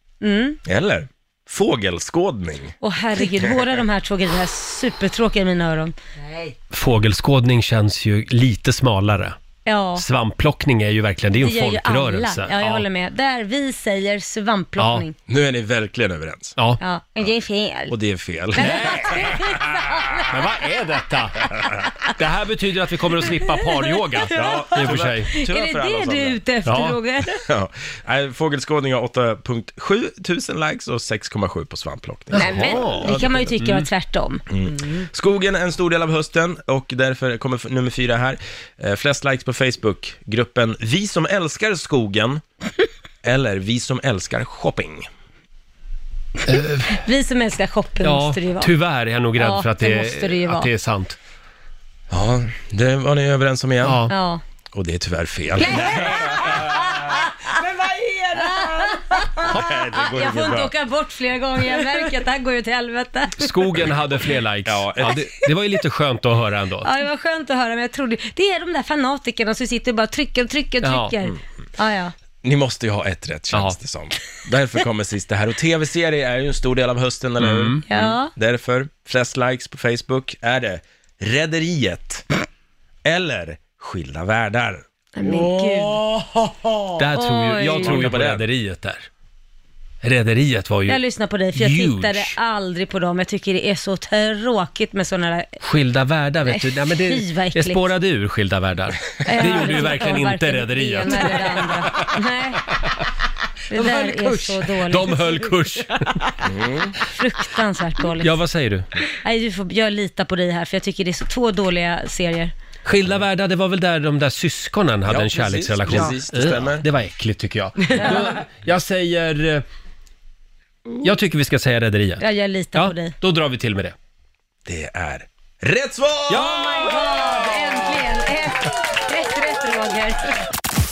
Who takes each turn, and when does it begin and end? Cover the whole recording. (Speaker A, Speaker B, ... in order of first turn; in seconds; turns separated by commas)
Speaker A: 0.2-0.6, Speaker B: 0.6-2.8, Speaker A: 2.8-5.9, Speaker C: 6.7-9.4, Speaker A: 9.7-10.0, Speaker C: 9.9-12.8, Speaker A: 11.4-15.1, Speaker C: 14.8-15.0, Speaker B: 15.3-16.6, Speaker A: 16.8-17.9, Speaker B: 17.9-19.2, Speaker A: 18.5-20.5, Speaker C: 18.6-19.3, Speaker C: 20.3-25.3, Speaker A: 23.6-24.6, Speaker B: 24.3-26.4, Speaker A: 25.4-27.3, Speaker C: 26.6-27.0, Speaker B: 27.4-33.5, Speaker C: 32.3-33.9, Speaker A: 32.4-34.4, Speaker B: 34.5-42.4, Speaker B: 43.2-45.1, Speaker C: 46.5-47.0, Speaker A: 46.9-48.7, Speaker C: 48.0-51.2, Speaker A: 49.4-50.7, Speaker B: 52.1-54.0, Speaker C: 53.8-54.1, Speaker A: 54.1-54.4, Speaker B: 54.7-56.8, Speaker A: 55.5-57.5, Speaker D: 56.2-59.3, Speaker A: 58.3-63.8, Speaker B: 59.4-60.7, Speaker C: 63.4-66.9, Speaker B: 64.7-65.2, Speaker A: 66.8-72.1, Speaker C: 70.8-71.1, Speaker B: 72.4-82.2, Speaker C: 77.4-77.8, Speaker A: 77.9-78.3, Speaker B: 83.0-84.8, Speaker A: 85.2-86.0, Speaker D: 85.2-87.0, Speaker C: 86.9-89.1, Speaker A: 87.1-88.0, Speaker B: 87.6-88.4, Speaker C: 90.0-91.0, Speaker A: 90.9-95.6, Speaker C: 91.5-92.3, Speaker C: 95.6-102.1, Speaker A: 96.4-97.8, Speaker A: 99.2-102.7, Speaker A: 103.7-105.3, Speaker D: 103.7-104.6, Speaker C: 104.7-106.3, Speaker B: 106.4-107.0, Speaker A: 107.0-108.4, Speaker C: 108.2-108.9, Speaker A: 109.2-112.5, Speaker C: 112.8-119.6, Speaker B: 115.0-116.8, Speaker A: 117.9-118.4, Speaker C: 121.0-122.2, Speaker A: 122.2-123.1, Speaker C: 122.7-123.9, Speaker B: 124.7-126.5, Speaker A: 126.3-130.4, Speaker C: 126.4-127.2